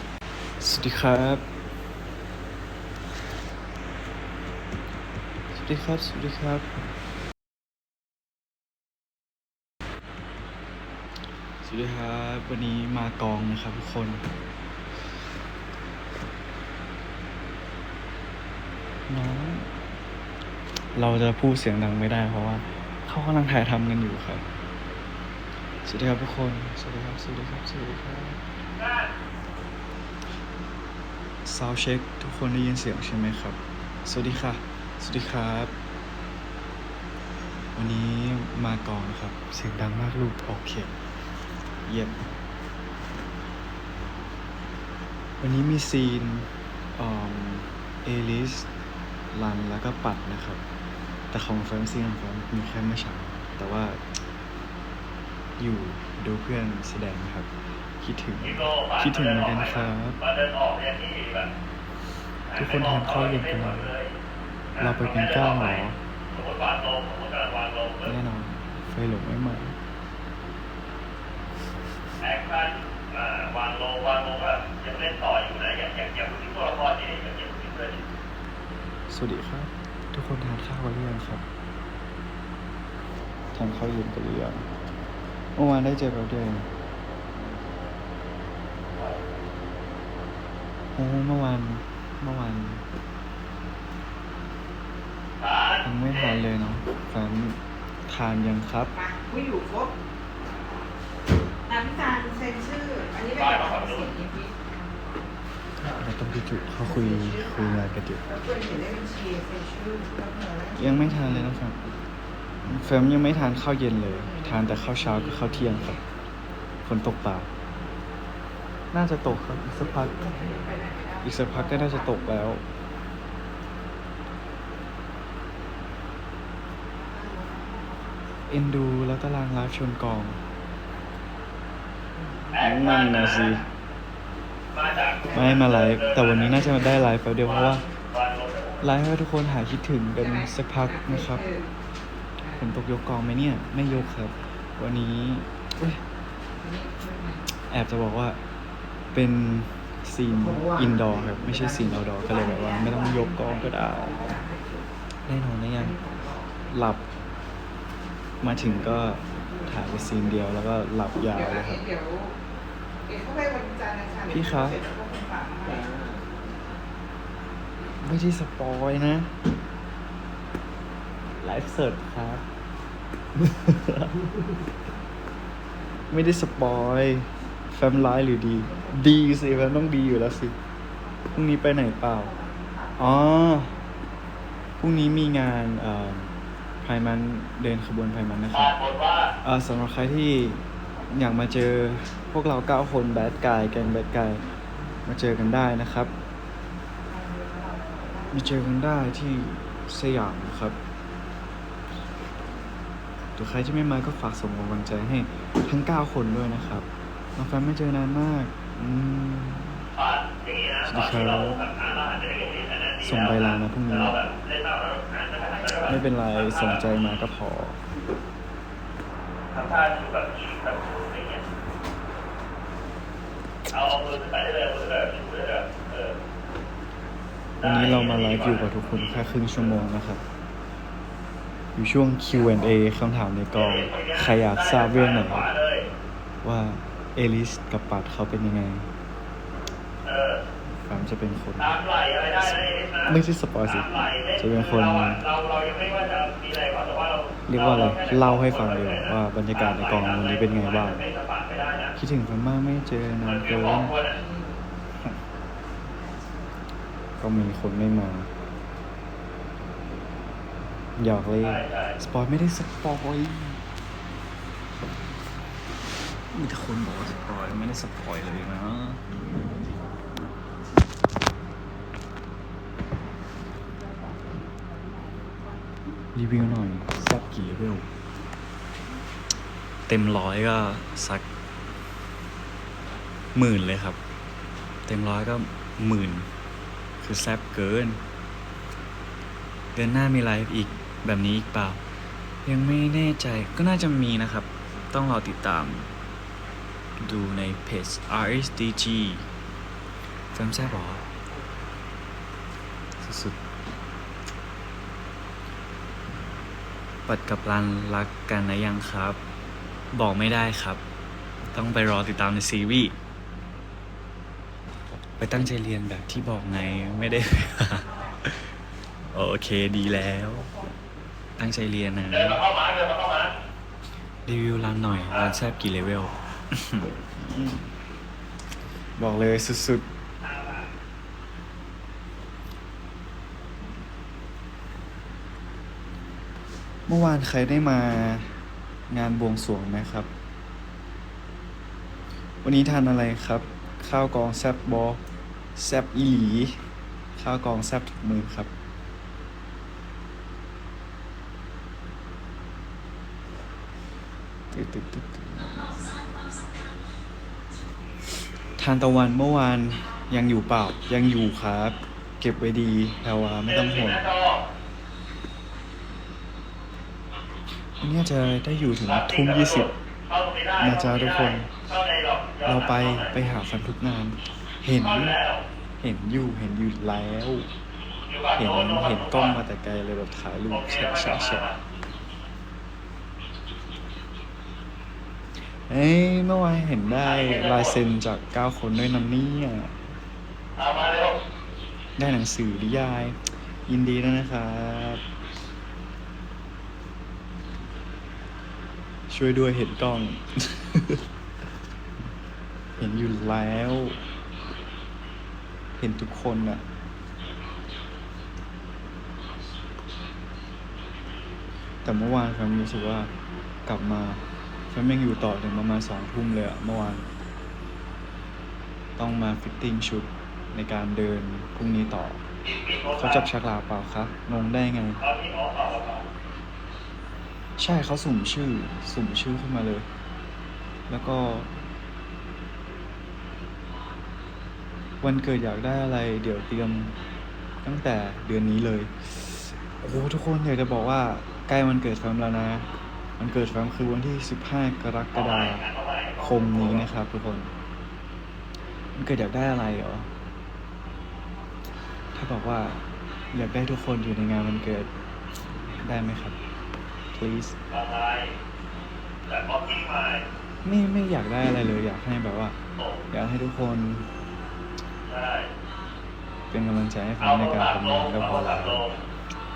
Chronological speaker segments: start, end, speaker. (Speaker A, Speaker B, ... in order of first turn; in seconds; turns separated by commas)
Speaker A: 0.6-1.4, Speaker A: 5.5-6.7, Speaker A: 11.6-14.2, Speaker A: 19.1-19.7, Speaker A: 20.9-24.4, Speaker A: 25.9-28.4, Speaker B: 28.8-29.1, Speaker A: 31.4-35.7, Speaker A: 37.8-40.9, Speaker A: 41.9-42.1, Speaker A: 45.4-48.7, Speaker A: 49.3-50.6, Speaker A: 51.3-54.0, Speaker A: 55.6-57.5, Speaker A: 58.0-60.2, Speaker B: 58.5-61.5, Speaker B: 62.5-64.1, Speaker A: 62.5-63.9, Speaker B: 64.8-68.1, Speaker A: 64.8-66.0, Speaker A: 68.0-69.8, Speaker B: 72.2-78.0, Speaker A: 79.1-81.4, Speaker A: 83.5-84.7, Speaker A: 85.6-86.7, Speaker A: 91.0-92.8, Speaker B: 95.4-95.8, Speaker A: 95.8-98.9, Speaker C: 99.0-99.9, Speaker C: 101.7-104.7, Speaker B: 103.4-104.1, Speaker A: 105.9-108.2, Speaker C: 108.3-110.8, Speaker A: 110.8-111.8, Speaker A: 112.7-116.0, Speaker A: 116.8-117.5, Speaker A: 118.9-120.3, Speaker C: 120.4-121.2, Speaker A: 121.2-122.6, Speaker A: 128.5-130.4, Speaker B: 132.5-133.6, Speaker A: 132.6-133.6, Speaker B: 134.7-136.6, Speaker A: 135.3-137.8, Speaker B: 137.5-138.8, Speaker A: 138.8-141.4, Speaker C: 140.9-141.7, Speaker A: 142.6-146.0, Speaker C: 146.6-147.2, Speaker A: 147.7-148.4, Speaker A: 149.1-154.3, Speaker A: 155.3-156.0, Speaker A: 156.7-157.1, Speaker A: 158.4-161.8, Speaker C: 161.4-162.3, Speaker C: 163.1-166.2, Speaker A: 164.3-164.8, Speaker A: 168.0-169.3, Speaker A: 171.4-172.4, Speaker A: 173.3-174.1, Speaker A: 176.1-180.6, Speaker A: 181.3-182.3, Speaker A: 183.0-183.7, Speaker A: 184.8-188.8, Speaker B: 188.5-189.3, Speaker A: 189.4-194.4, Speaker A: 195.1-196.1, Speaker A: 198.3-200.8, Speaker A: 203.4-209.9, Speaker B: 210.0-215.9, Speaker A: 210.8-211.6, Speaker A: 213.0-214.2, Speaker A: 215.9-217.8, Speaker B: 219.5-221.4, Speaker B: 223.7-226.2, Speaker A: 227.6-230.2, Speaker B: 227.6-228.6, Speaker A: 231.8-235.5, Speaker B: 233.6-235.9, Speaker A: 236.4-238.9, Speaker B: 240.1-240.4, Speaker A: 240.8-241.7, Speaker B: 241.6-243.1, Speaker A: 242.5-245.2, Speaker B: 243.9-249.0, Speaker A: 247.5-251.0, Speaker B: 249.6-251.9, Speaker A: 252.0-254.0, Speaker B: 253.2-254.2, Speaker A: 257.2-258.3, Speaker A: 261.0-263.6, Speaker B: 261.4-261.9, Speaker A: 266.3-269.1, Speaker A: 276.1-277.9, Speaker A: 279.9-281.3, Speaker A: 283.3-284.0, Speaker A: 284.9-286.3, Speaker A: 287.0-288.0, Speaker A: 289.8-291.8, Speaker A: 292.4-295.9, Speaker A: 297.0-299.3, Speaker A: 300.3-301.1, Speaker A: 303.0-303.4, Speaker A: 307.1-309.2, Speaker A: 309.9-310.8, Speaker A: 311.5-313.0, Speaker A: 315.2-318.5, Speaker A: 319.1-320.5, Speaker A: 321.4-322.4, Speaker B: 322.1-323.3, Speaker A: 324.3-327.7, Speaker A: 329.0-329.9, Speaker B: 330.2-330.6, Speaker A: 336.9-338.3, Speaker A: 338.9-340.1, Speaker A: 342.4-345.0, Speaker A: 345.6-346.6, Speaker A: 347.2-348.5, Speaker A: 354.5-355.6, Speaker A: 358.6-364.1, Speaker B: 363.5-364.4, Speaker A: 367.8-369.7, Speaker B: 368.9-373.1, Speaker A: 370.6-371.5, Speaker A: 372.4-375.2, Speaker B: 374.8-375.4, Speaker A: 375.8-377.5, Speaker B: 378.1-379.4, Speaker A: 378.4-381.5, Speaker B: 380.5-381.5, Speaker A: 385.7-389.8, Speaker B: 387.1-387.8, Speaker B: 390.6-391.2, Speaker A: 392.0-395.0, Speaker A: 399.1-401.0, Speaker A: 402.8-404.0, Speaker A: 405.8-406.6, Speaker A: 411.9-413.1, Speaker A: 413.7-417.1, Speaker A: 419.0-422.2, Speaker B: 422.4-423.2, Speaker A: 423.0-425.0, Speaker B: 425.0-426.1, Speaker A: 427.6-429.9, Speaker A: 430.9-431.5, Speaker A: 435.0-436.9, Speaker A: 437.6-445.6, Speaker B: 445.1-446.6, Speaker A: 446.2-447.5, Speaker A: 448.9-450.1, Speaker A: 452.1-452.8, Speaker A: 453.3-454.9, Speaker A: 455.8-456.4, Speaker A: 457.1-457.6, Speaker B: 457.7-458.3, Speaker B: 459.3-460.2, Speaker A: 460.6-462.6, Speaker A: 463.1-464.1, Speaker B: 465.1-465.5, Speaker A: 466.5-468.8, Speaker B: 467.2-468.9